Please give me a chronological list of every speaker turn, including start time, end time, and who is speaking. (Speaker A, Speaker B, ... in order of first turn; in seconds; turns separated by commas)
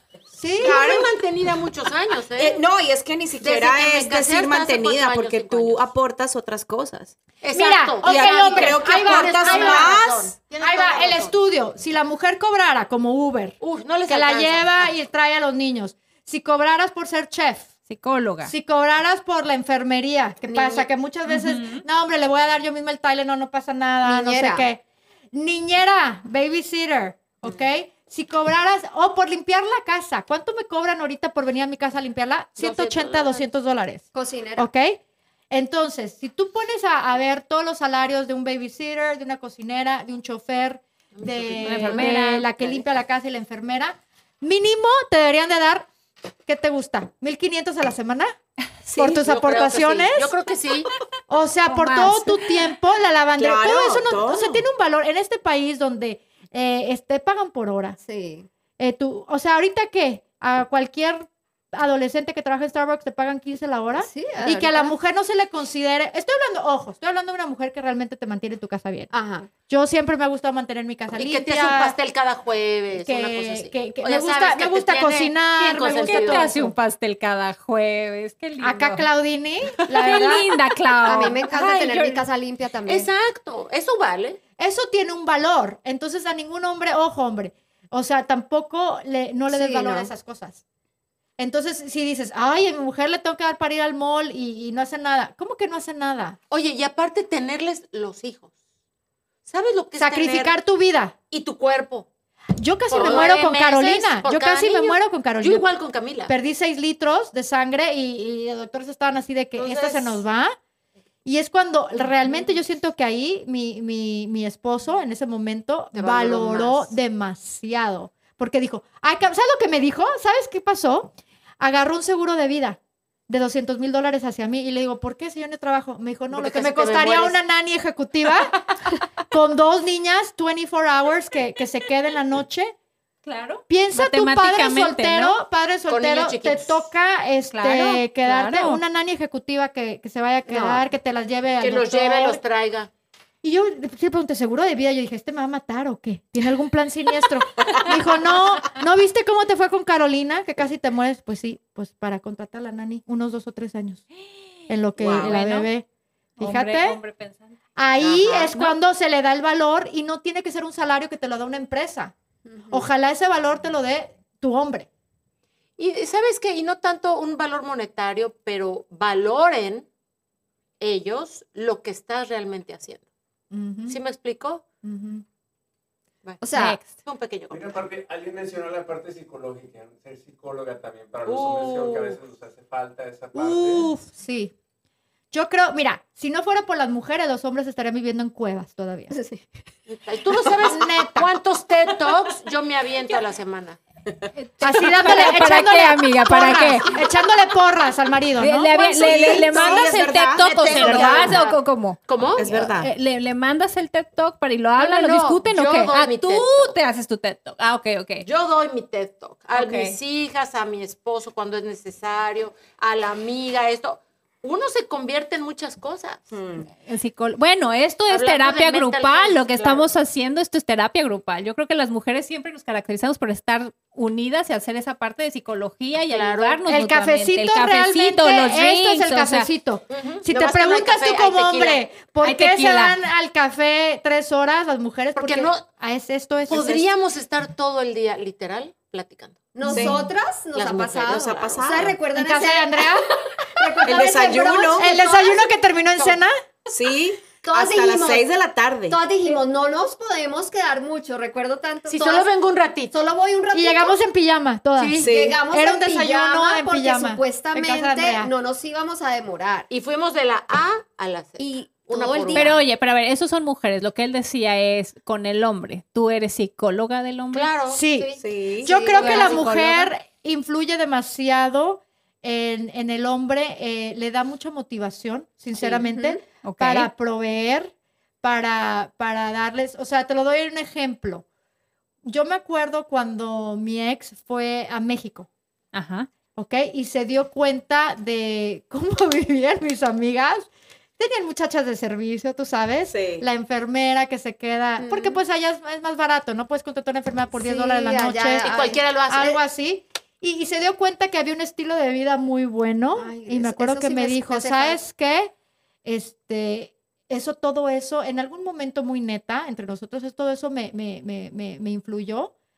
Speaker A: 0.3-0.8, Speaker B: 0.6-1.1, Speaker C: 0.6-2.6, Speaker B: 2.4-7.2, Speaker C: 3.4-5.9, Speaker C: 7.4-11.3, Speaker A: 7.5-17.7, Speaker B: 8.0-10.3, Speaker C: 13.6-14.8, Speaker D: 17.9-18.5, Speaker A: 18.4-24.8, Speaker E: 20.5-20.9, Speaker D: 21.3-21.8, Speaker E: 24.0-24.7, Speaker A: 25.3-35.0, Speaker C: 32.6-33.4, Speaker E: 34.1-34.7, Speaker A: 35.5-45.9, Speaker C: 41.1-42.1, Speaker D: 41.6-42.5, Speaker A: 46.5-48.3, Speaker B: 48.9-49.2, Speaker A: 48.9-50.3, Speaker C: 49.0-50.9, Speaker A: 51.3-58.0, Speaker D: 51.6-52.6, Speaker B: 53.4-54.6, Speaker E: 58.0-58.5, Speaker A: 58.8-69.1, Speaker E: 64.0-64.9, Speaker E: 69.1-69.5, Speaker A: 69.7-71.9, Speaker C: 71.1-76.5, Speaker A: 72.9-76.8, Speaker D: 75.8-79.0, Speaker A: 78.6-80.5, Speaker D: 79.9-82.2, Speaker E: 81.0-83.1, Speaker C: 82.8-84.4, Speaker A: 84.6-90.6, Speaker E: 89.5-90.1, Speaker A: 91.4-96.4, Speaker C: 96.5-98.5, Speaker C: 99.5-100.6, Speaker A: 100.0-101.1, Speaker C: 101.3-102.1, Speaker A: 102.6-105.6, Speaker C: 102.9-106.3, Speaker A: 106.3-110.5, Speaker C: 109.6-110.2, Speaker A: 111.2-128.6, Speaker C: 115.9-116.9, Speaker C: 126.3-127.4, Speaker A: 129.3-132.7, Speaker D: 133.2-135.4, Speaker A: 133.7-142.4, Speaker C: 135.9-136.9, Speaker D: 137.5-138.8, Speaker C: 141.6-142.9, Speaker A: 143.4-154.0, Speaker A: 154.7-155.8, Speaker B: 155.0-155.4, Speaker D: 155.0-155.7, Speaker D: 156.4-157.5, Speaker A: 156.4-157.0, Speaker A: 157.8-162.1, Speaker B: 158.0-158.5, Speaker E: 162.5-162.8, Speaker A: 162.7-164.9, Speaker C: 165.8-169.8, Speaker C: 170.8-173.0, Speaker A: 173.5-174.0, Speaker C: 173.9-174.6, Speaker A: 174.8-175.2, Speaker C: 176.2-177.7, Speaker E: 176.4-176.8, Speaker D: 176.5-177.0, Speaker F: 177.5-183.9, Speaker C: 181.2-182.2, Speaker A: 183.3-184.5, Speaker A: 185.3-189.1, Speaker E: 189.1-189.4, Speaker C: 189.9-193.8, Speaker A: 190.6-191.3, Speaker D: 194.3-197.0, Speaker A: 194.6-198.7, Speaker D: 198.4-208.3, Speaker B: 198.8-201.4, Speaker C: 199.0-199.9, Speaker C: 200.6-201.6, Speaker C: 202.1-202.6, Speaker B: 202.4-202.9, Speaker C: 204.8-206.7, Speaker C: 208.2-216.3, Speaker D: 209.5-210.0, Speaker B: 216.3-216.7, Speaker D: 216.9-229.5, Speaker C: 218.1-219.9, Speaker C: 226.1-226.6, Speaker A: 226.6-236.8, Speaker C: 229.9-231.8, Speaker D: 232.2-233.0, Speaker C: 235.2-235.7, Speaker C: 236.5-239.5, Speaker E: 239.5-242.9, Speaker A: 239.6-240.1, Speaker B: 239.6-240.0, Speaker C: 240.5-241.9, Speaker B: 241.1-241.9, Speaker A: 242.1-243.1, Speaker E: 243.6-245.5, Speaker A: 243.6-246.3, Speaker B: 243.8-244.9, Speaker B: 246.7-249.0, Speaker E: 247.4-248.2, Speaker E: 248.9-252.3, Speaker C: 251.9-252.9, Speaker E: 252.9-254.0, Speaker A: 253.5-258.3, Speaker C: 254.8-255.1, Speaker B: 255.0-255.4, Speaker E: 255.0-259.7, Speaker C: 259.7-262.6, Speaker E: 261.4-262.6, Speaker D: 262.3-267.5, Speaker C: 267.3-267.8, Speaker A: 267.7-281.2, Speaker B: 268.2-268.7, Speaker E: 268.6-269.4, Speaker D: 268.9-269.9, Speaker E: 275.6-276.2, Speaker D: 276.4-276.9, Speaker A: 282.0-285.3, Speaker D: 285.7-286.1, Speaker A: 286.3-298.5, Speaker B: 292.9-293.3, Speaker E: 294.8-295.2, Speaker E: 297.4-299.4, Speaker C: 298.4-299.4, Speaker A: 299.1-305.3, Speaker E: 302.9-304.8, Speaker A: 305.8-312.3